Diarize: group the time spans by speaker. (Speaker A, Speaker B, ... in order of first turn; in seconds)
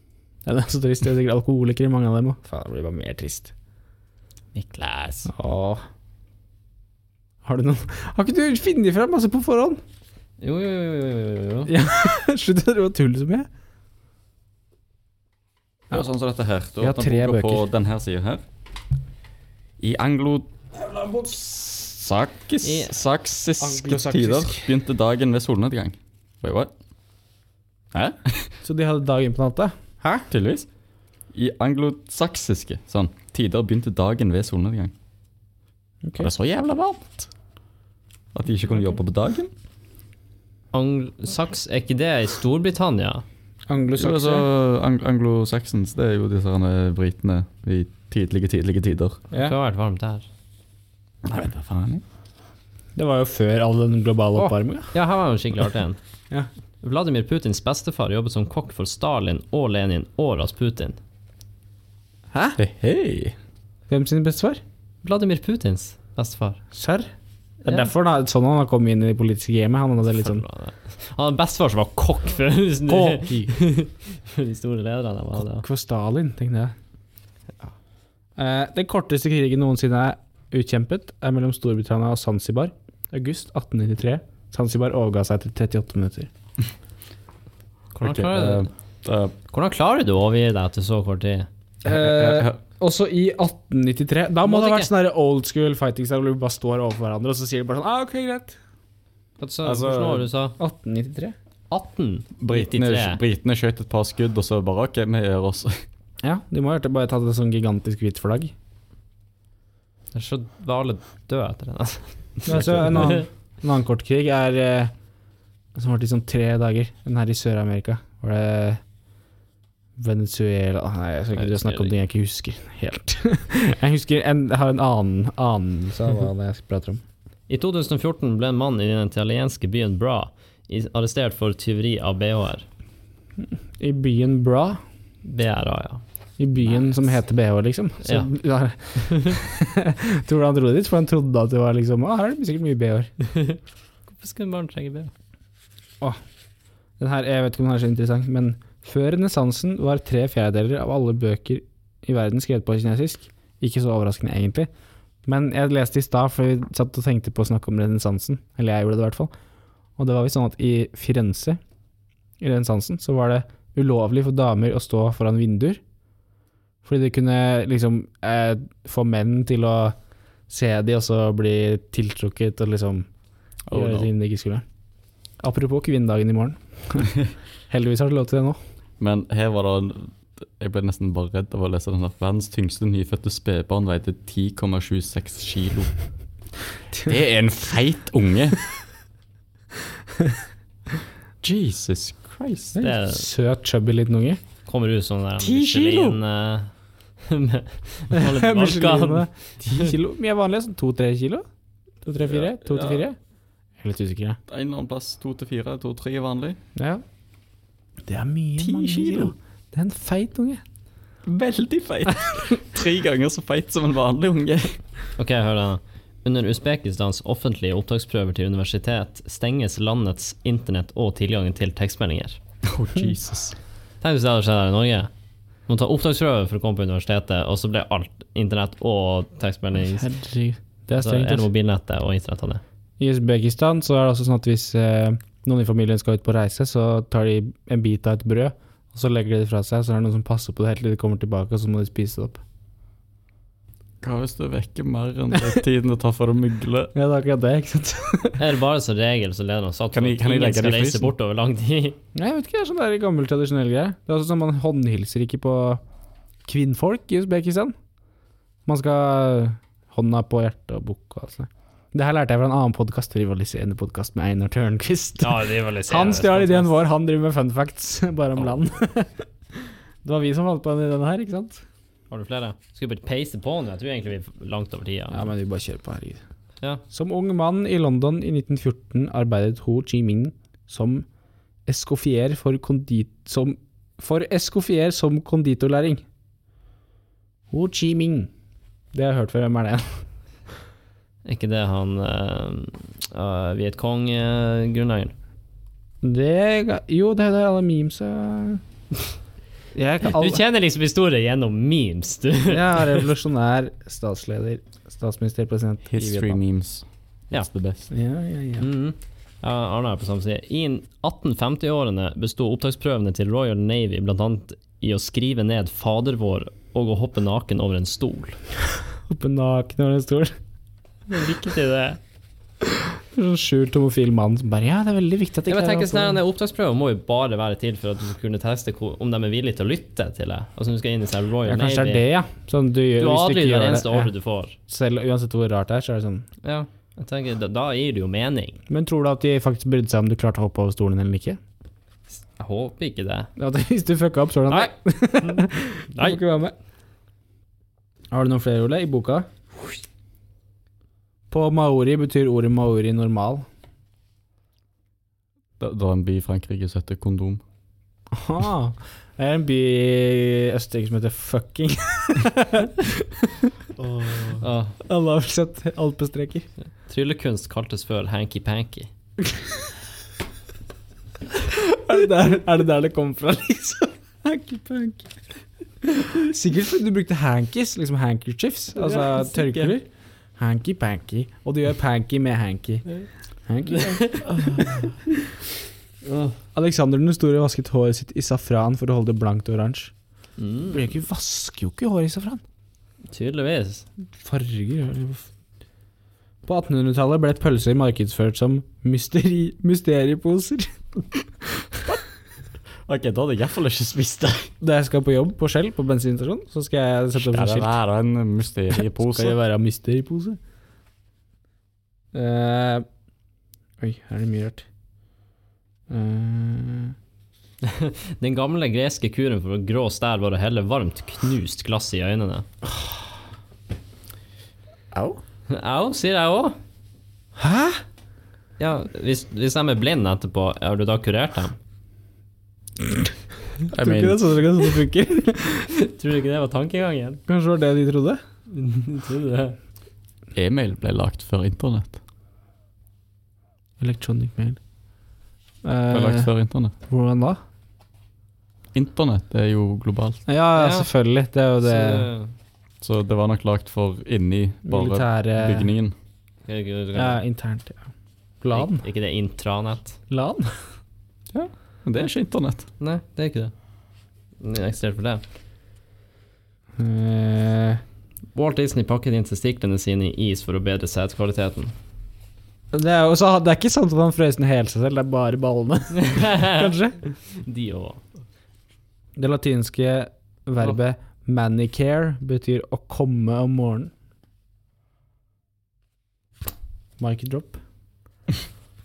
Speaker A: 0.4-3.5, 5.2-5.8, 7.4-9.8, 11.7-13.5, 16.8-17.6, 23.6-24.7, 28.6-30.2, 36.0-36.3, 43.7-44.5, 53.0-54.9, 62.3-62.6, 63.9-64.6, 66.7-67.1, 67.6-70.4, 72.9-73.5, 75.4-76.7, 78.3-86.3, 91.8-98.6, 100.6-101.3, 106.2-108.5, 112.5-114.9, 115.7-118.8, 120.0-127.0, 133.4-134.8, 136.4-143.1, 147.0-154.7, 155.2-159.3, 160.0-161.6, 162.4-165.8, 166.8-170.0, 170.5-173.1, 173.7-174.6, 175.4-177.1, 177.7-178.6, 192.7-194.4, 195.4-196.2, 198.1-201.4, 202.0-203.2, 203.8-204.4, 206.8-207.0, 208.0-210.6, 229.8-231.5, 233.0-242.4, 246.9-248.4, 252.1-255.8, 256.4-257.7, 258.6-271.6, 275.1-276.2, 276.9-281.1, 281.6-286.0, 287.5-288.3, 288.9-290.0, 296.0-298.6, 299.7-300.4, 302.5-306.4, 307.9-308.7, 319.1-320.3, 323.0-326.2, 331.4-336.2, 338.7-341.4, 343.4-346.5, 348.1-349.3, 351.3-353.4, 358.1-363.5, 364.2-366.5, 371.3-375.1, 375.8-382.8, 383.4-384.9, 386.5-389.9, 390.7-392.4, 394.1-395.3, 396.4-401.9, 404.6-407.7, 408.8-410.4, 412.1-412.9, 413.8-414.6, 415.9-416.9, 422.7-423.0, 424.9-425.2, 427.4-427.8, 433.7-435.7, 437.3-438.2, 443.8-444.6, 445.6-446.3, 446.9-447.4, 450.3-452.1, 454.6-455.7, 456.9-457.9, 458.4-458.8, 460.1-460.7, 466.8-467.8, 472.7-477.0, 479.1-483.9, 487.0-487.6
Speaker B: 4.9-5.2, 15.9-18.4, 19.8-26.7, 27.9-28.5, 30.3-30.7, 31.3-34.9, 36.2-37.3, 38.3-39.5, 44.0-49.2, 51.2-52.0, 62.6-63.4, 88.0-89.3, 91.8-92.6, 99.6-100.2, 102.4-105.8, 173.7-174.1, 179.0-185.9, 186.9-188.6, 191.4-192.7, 202.3-203.0, 204.5-206.6, 208.6-209.3, 211.2-214.8, 222.7-223.6, 244.0-246.9, 249.9-251.1, 305.9-307.9, 355.6-357.4, 402.9-404.5, 407.1-409.4, 433.7-434.3, 440.3-442.0, 445.9-446.7, 448.7-450.2, 452.8-455.9, 461.3-462.7
Speaker C: 10.4-11.7, 22.6-22.9, 40.7-43.2, 49.4-50.3, 54.4-56.0, 56.8-61.0, 65.0-66.6, 70.2-75.6, 87.9-88.7, 89.5-91.5, 94.4-94.9, 99.4-100.5, 101.7-103.2, 110.1-113.3, 121.4-121.9, 127.5-132.7, 135.2-136.0, 139.0-139.4, 143.2-143.6, 144.1-145.1, 192.8-193.3, 194.7-199.9, 215.2-222.4, 224.0-225.1, 225.7-230.1, 231.0-232.6, 248.4-252.0, 265.2-266.7, 272.1-275.3, 291.2-295.1, 300.1-303.0, 308.6-318.4, 321.1-322.0, 325.5-332.0, 333.0-334.5, 336.4-338.6, 342.3-343.3, 344.5-346.2, 364.4-364.8, 366.8-368.9, 378.9-379.7, 383.7-384.3, 390.4-390.8, 393.1-393.9, 417.6-422.4, 425.5-426.6, 428.6-431.6, 435.6-437.2, 438.5-439.6, 450.6-450.9, 451.6-452.3, 456.5-457.2, 458.5-460.0, 462.8-463.5, 464.4-465.2, 468.3-471.7, 475.9-476.7, 477.3-478.0